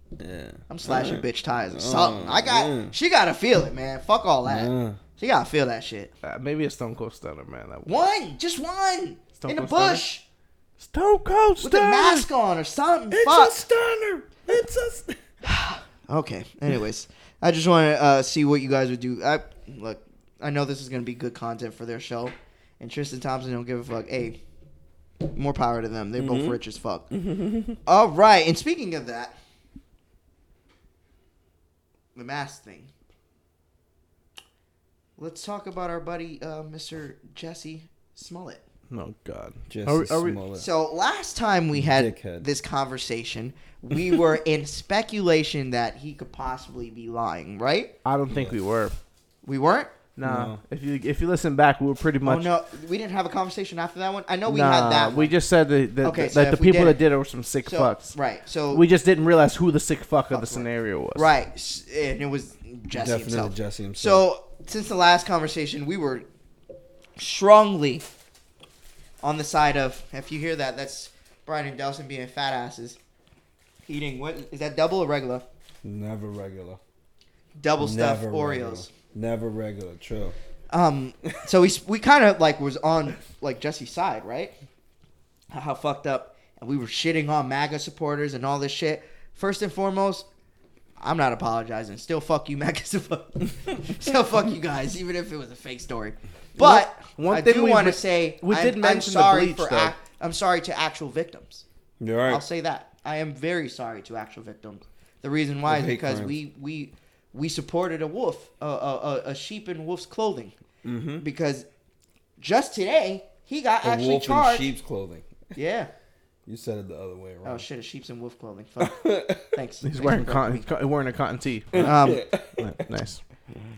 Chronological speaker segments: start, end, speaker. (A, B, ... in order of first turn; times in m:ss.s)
0:00.2-0:02.9 A
0:00.7-0:06.1 B
0:04.4-0:05.0 A
0:06.2-0:08.1 C
0:07.8-0:10.2 B
0:09.4-0:10.0 C
0:10.8-0:12.3 C
0:11.6-0:13.5 B
0:13.1-0:15.2 A
0:15.4-0:24.4 B
0:25.2-0:27.1 B
0:26.2-0:26.6 A
0:27.1-0:27.8 A
0:27.8-0:29.3 B
0:32.1-0:32.9 B
0:35.2-0:38.6 B
0:38.9-0:40.4 C
0:39.7-0:40.7 A
0:40.6-0:47.9 B
0:41.7-0:42.5 A
0:48.0-0:49.0 C
0:48.3-0:48.6 A
0:49.4-0:50.0 B
0:50.2-0:52.5 C
0:50.2-0:50.6 A
0:52.2-0:55.3 B
0:54.5-0:58.1 C
0:56.0-0:57.0 B
0:57.6-0:58.8 B
0:58.7-1:01.3 C
1:00.3-1:06.2 B
1:02.9-1:04.2 A
1:07.2-1:08.0 B
1:09.2-1:13.0 B
1:13.8-1:15.4 B
1:15.8-1:16.8 A
1:17.6-1:18.9 B
1:17.8-1:20.3 A
1:20.7-1:24.5 B
1:25.5-1:30.3 B
1:31.0-1:41.6 B
1:36.6-1:39.9 C
1:42.0-1:42.4 A
1:42.3-1:50.5 B
1:45.6-1:46.3 A
1:50.8-1:51.2 A
1:51.2-1:51.6 B
1:52.4-1:54.7 B
1:53.8-1:55.4 A
1:55.5-1:55.9 B
1:56.4-1:57.6 A
1:57.4-2:00.6 B
1:58.8-1:59.6 A
1:59.8-2:02.0 C
2:01.7-2:02.8 A
2:01.8-2:02.2 B
2:02.6-2:03.2 C